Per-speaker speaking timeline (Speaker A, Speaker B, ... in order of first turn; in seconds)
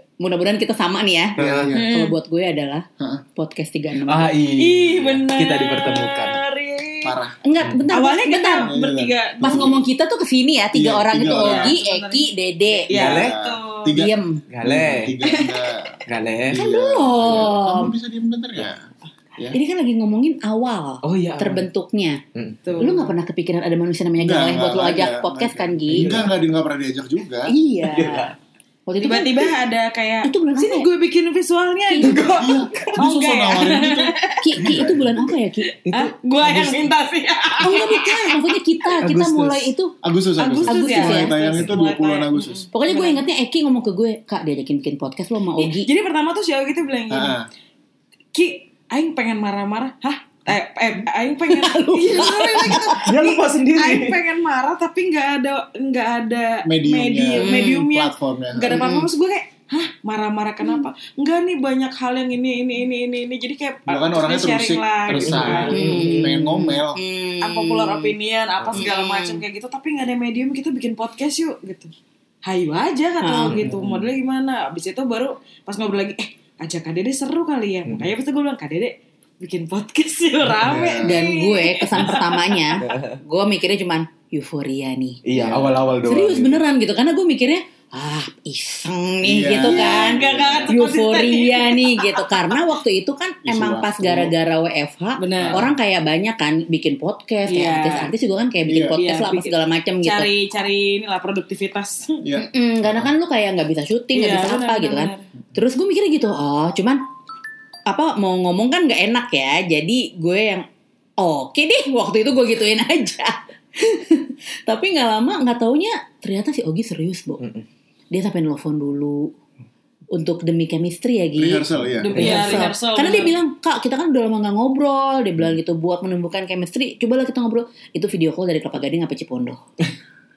Speaker A: 0.2-4.4, 7.4-8.7, 9.4-12.9, 13.9-14.4, 16.5-17.9, 19.5-22.2, 22.8-26.3, 27.5-28.3, 28.9-29.6, 30.2-30.9, 31.9-32.3, 34.4-35.7, 37.6-39.9, 40.7-41.6, 42.7-45.9, 51.5-53.1, 57.4-57.9, 58.7-59.1, 65.7-68.1, 68.8-69.4, 73.2-73.7, 81.0-85.3, 86.0-100.3, 102.4-107.0, 107.9-110.7, 111.2-117.4, 118.1-119.3, 120.1-129.6
Speaker B: 1.4-1.9, 7.0-7.4, 8.6-9.8, 10.7-11.8, 12.9-19.6, 24.2-27.5, 32.2-35.2, 39.0-42.7, 47.1-47.5, 56.7-58.9, 63.9-67.0, 80.6-81.2, 85.3-85.8, 89.2-90.7, 93.5-94.3, 95.4-95.7, 98.7-99.0, 102.2-102.5, 121.4-122.6
Speaker C: 1.4-1.7, 4.0-6.4, 12.9-13.4, 14.5-15.2, 16.1-16.6, 21.0-21.7, 22.4-22.6, 25.9-26.4, 27.8-28.4, 32.0-33.0, 35.9-36.9, 52.9-54.2, 65.1-66.4, 68.6-68.9, 73.5-74.1, 77.9-78.1, 82.8-83.2, 85.3-86.6, 117.4-117.7, 121.8-122.7
Speaker D: 1.7-2.1, 4.6-7.2, 7.9-9.8, 11.4-14.0, 22.6-23.1, 29.0-34.8, 35.6-38.5, 40.4-43.2, 45.6-47.4, 48.3-66.0, 67.4-71.9, 72.5-82.8, 89.6-92.3, 95.2-95.7, 97.5-98.1, 98.9-102.2, 104.1-105.2, 122.0-123.3